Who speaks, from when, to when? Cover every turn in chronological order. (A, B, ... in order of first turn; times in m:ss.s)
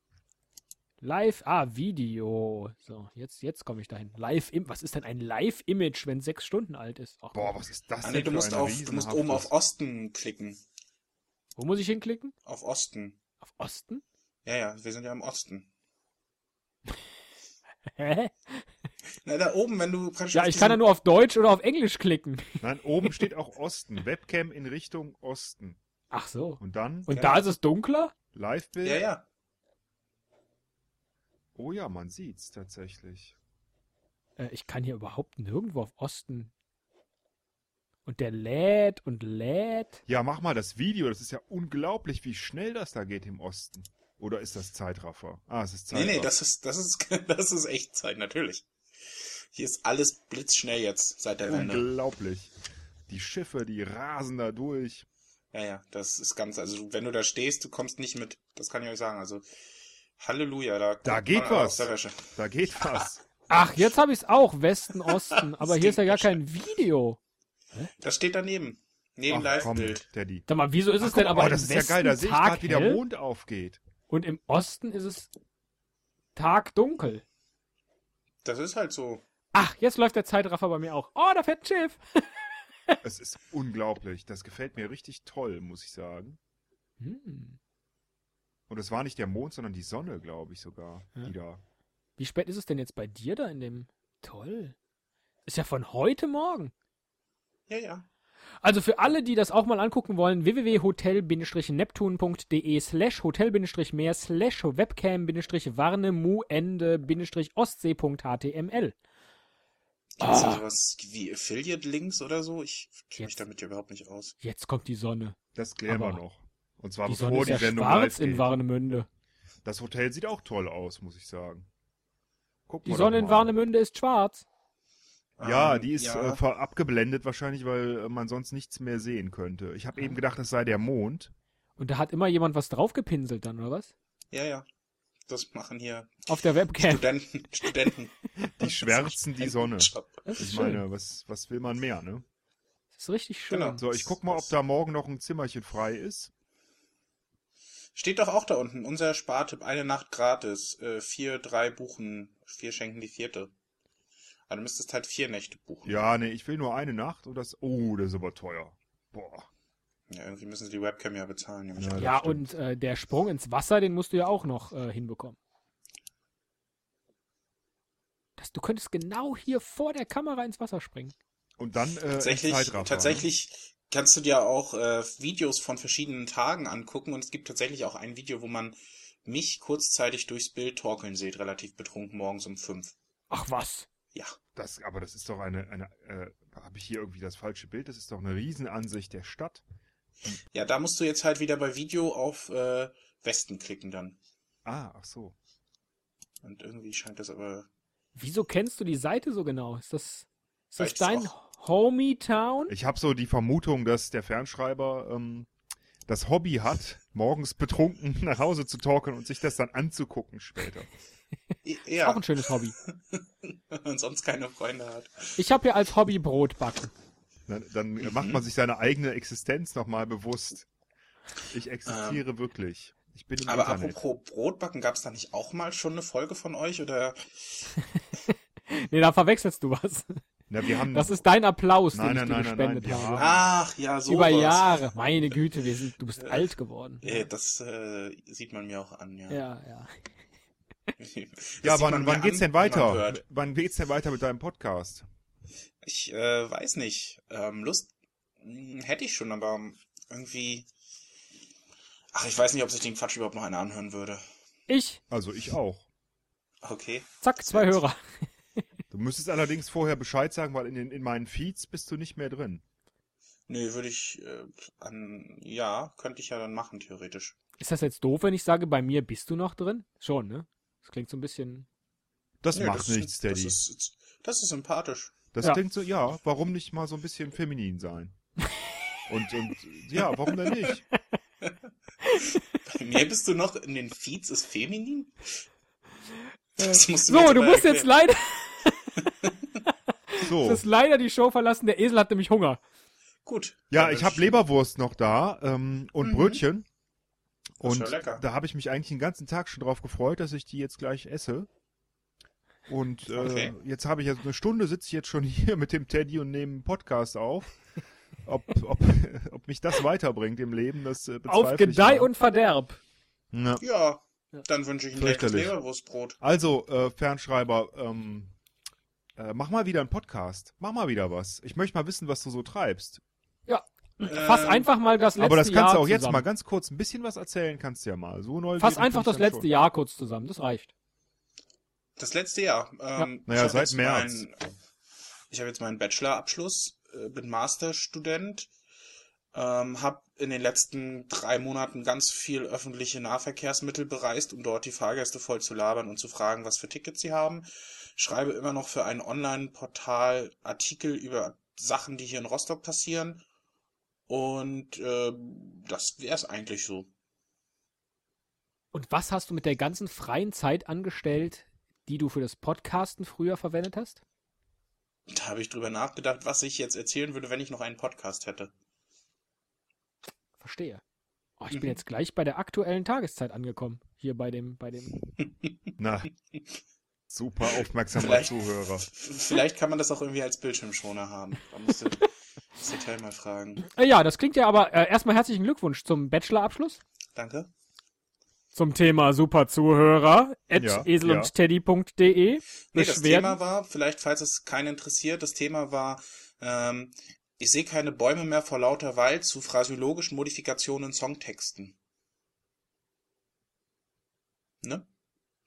0:01.0-0:07.6 A
0:07.3-0:09.5 B
0:08.0-0:10.6 C
0:11.6-0:12.3 A
0:12.4-0:13.2 C
0:13.4-0:14.0 A
0:14.4-0:15.7 C
0:18.0-0:18.6 A
0:19.2-0:20.8 C
0:20.3-0:23.2 A
0:22.6-0:25.8 B
0:26.1-0:28.1 A
0:26.6-0:27.1 B
0:27.1-0:27.5 C
0:28.3-0:29.0 B
0:28.8-0:29.2 C
0:31.5-0:33.3 B
0:34.4-0:36.5 A
0:38.0-0:40.0 A
0:40.1-0:46.3 B
0:45.9-0:51.8 C
0:51.4-0:52.5 B
0:53.1-0:55.0 B
0:55.5-0:59.4 C
1:00.2-1:02.3 C
1:01.0-1:03.2 B
1:03.5-1:07.2 A
1:05.5-1:06.4 C
1:08.0-1:10.0 C
1:09.3-1:10.4 B
1:10.5-1:13.0 A
1:11.0-1:13.8 B
1:14.1-1:15.3 A
1:16.3-1:17.2 A
1:18.4-1:19.2 C
1:19.5-1:22.0 A
1:23.0-1:26.4 B
1:27.0-1:27.6 A
1:28.7-1:31.6 B
1:32.2-1:34.8 A
1:35.4-1:36.7 A
1:37.7-1:38.0 C
1:38.6-1:48.9 A
1:50.2-1:54.3 C
1:50.2-1:50.6 A
1:54.4-1:55.4 A
1:55.5-1:58.5 B
1:55.9-1:56.2 A
1:57.0-1:59.1 A
1:59.6-2:01.7 B
2:02.7-2:03.5 B
2:02.8-2:04.4 A
2:05.4-2:06.4 C
2:05.4-2:11.3 B
2:11.8-2:13.9 A
2:14.3-2:14.7 C
2:15.3-2:20.2 C
2:16.3-2:17.0 A
2:18.4-2:22.2 B
2:20.2-2:20.8 A
2:22.9-2:23.8 A
2:23.5-2:24.5 C
2:23.8-2:26.3 B
2:27.9-2:33.5 C
2:34.5-2:36.0 C
2:35.8-2:39.5 B
2:40.1-2:42.1 C
2:41.8-2:42.5 B
2:42.0-2:45.4 A
2:48.4-2:51.1 A
2:51.6-2:53.3 B
2:52.2-3:02.9 C
3:03.3-3:03.8 A
3:04.5-3:09.6 B
3:10.5-3:14.2 C
3:14.6-3:15.3 B
3:16.4-3:17.7 C
3:18.2-3:22.7 A
3:20.8-3:21.3 C
3:22.7-3:25.5 B
3:26.1-3:30.9 B
3:31.6-3:35.4 C
3:32.0-3:32.7 A
3:35.4-3:36.9 A
3:37.5-3:40.7 B
3:38.0-3:38.4 C
3:41.5-3:44.0 B
3:41.9-3:42.2 C
3:43.4-3:47.6 C
3:48.7-3:50.2 A
3:50.5-3:51.2 B
3:50.9-3:53.3 A
3:51.9-3:53.4 B
3:53.1-3:54.8 C
3:54.0-3:57.2 A
3:56.2-3:56.5 C
3:57.0-3:59.4 C
3:59.3-3:59.9 A
4:01.0-4:03.2 C
4:01.6-4:05.0 B
4:05.8-4:10.7 C
4:12.1-4:14.2 C
4:14.7-4:15.0 A
4:15.1-4:15.8 B
4:16.6-4:17.8 C
4:17.2-4:18.0 A
4:18.9-4:22.6 B
4:23.5-4:27.4 C
4:27.6-4:31.6 A
4:32.4-4:33.6 B
4:32.5-4:35.2 C
4:35.3-4:38.2 B
4:39.1-4:40.8 B
4:42.0-4:42.3 A
4:42.5-4:45.3 C
4:46.6-4:48.9 A
4:46.6-4:47.9 C
4:50.1-4:52.6 A
4:50.2-4:50.6 B
4:53.2-4:54.4 C
4:53.7-4:56.6 B
4:56.0-4:56.4 C
4:57.6-5:01.5 B
4:57.6-4:58.2 C
5:02.7-5:07.6 B
5:03.1-5:03.5 C
5:08.2-5:12.1 B
5:11.3-5:12.8 A
5:13.3-5:13.6 B
5:13.6-5:16.2 C
5:14.9-5:15.5 B
5:16.2-5:18.3 B
5:19.2-5:23.0 B
5:23.5-5:26.2 A
5:24.0-5:24.7 C
5:25.2-5:29.5 B
5:28.6-5:30.7 A
5:32.0-5:34.4 C
5:33.2-5:34.2 B
5:35.3-5:38.5 C
5:39.3-5:53.2 C
5:54.1-5:56.9 C
5:58.7-6:04.0 A
6:05.1-6:08.5 C
6:10.4-6:10.8 A
6:11.4-6:15.0 A
6:15.8-6:16.1 B
6:17.1-6:18.9 B
6:17.9-6:23.6 C
6:23.6-6:26.8 A
6:27.1-6:27.5 C
6:28.5-6:33.4 A
6:30.6-6:31.3 B
6:32.7-6:41.7 C